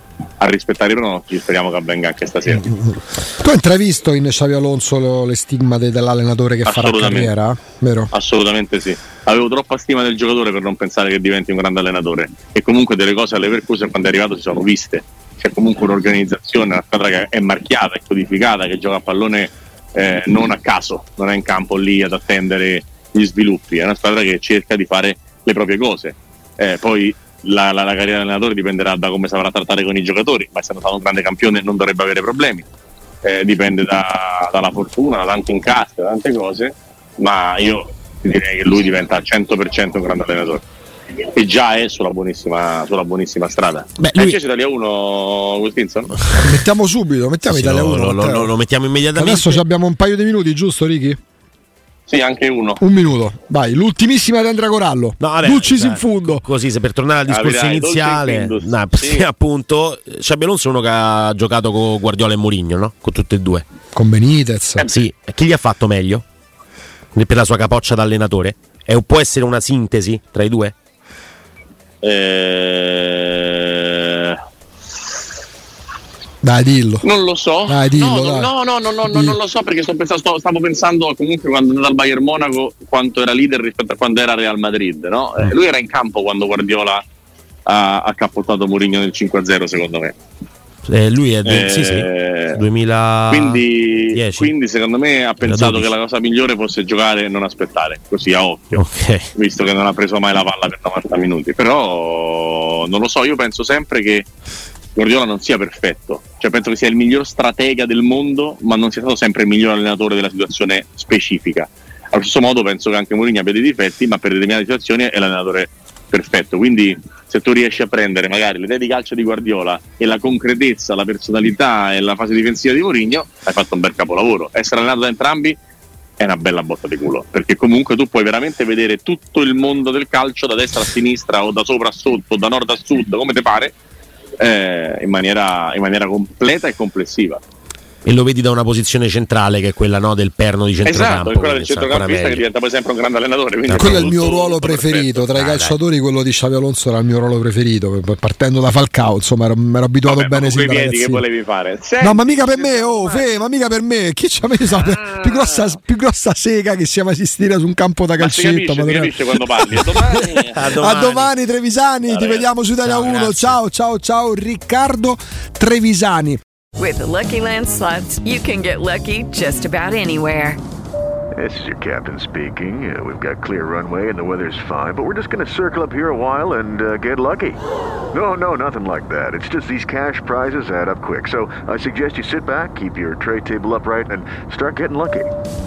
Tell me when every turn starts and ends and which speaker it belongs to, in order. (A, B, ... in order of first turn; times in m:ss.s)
0:00.4-0:02.7 A
0:02.6-0:08.1 B
0:06.6-0:07.3 A
0:08.1-0:32.7 A
0:33.2-0:40.6 A
0:41.3-0:46.2 A
0:44.0-0:44.4 C
0:46.4-0:48.5 B
0:47.5-0:49.6 C
0:49.2-0:51.2 B
0:52.1-0:52.8 A
0:52.8-0:56.4 B
0:55.2-1:03.6 C
0:57.3-0:59.3 A
1:03.9-1:04.9 B
1:04.8-1:06.2 C
1:07.2-1:10.7 C
1:12.0-1:14.4 A
1:16.4-1:17.1 B
1:17.0-1:27.0 A
1:17.7-1:18.5 B
1:19.0-1:19.4 B
1:27.7-1:30.2 A
1:30.9-1:34.5 C
1:31.4-1:32.6 A
1:33.3-1:44.3 A
1:35.4-1:35.9 C
1:38.8-1:39.3 C
1:45.0-2:05.6 A
2:06.2-2:13.8 A
2:14.4-2:17.4 A
2:18.0-2:22.4 C
2:20.8-2:25.2 A
2:23.7-2:24.3 C
2:23.8-2:31.2 B
2:25.3-2:25.8 C
2:30.1-2:33.4 A
2:32.0-2:46.4 B
2:34.8-2:35.7 A
2:38.2-2:41.3 A
2:42.1-2:42.5 A
2:42.8-2:43.6 C
2:46.8-2:50.6 D
2:51.4-2:57.6 E
2:58.1-3:05.3 E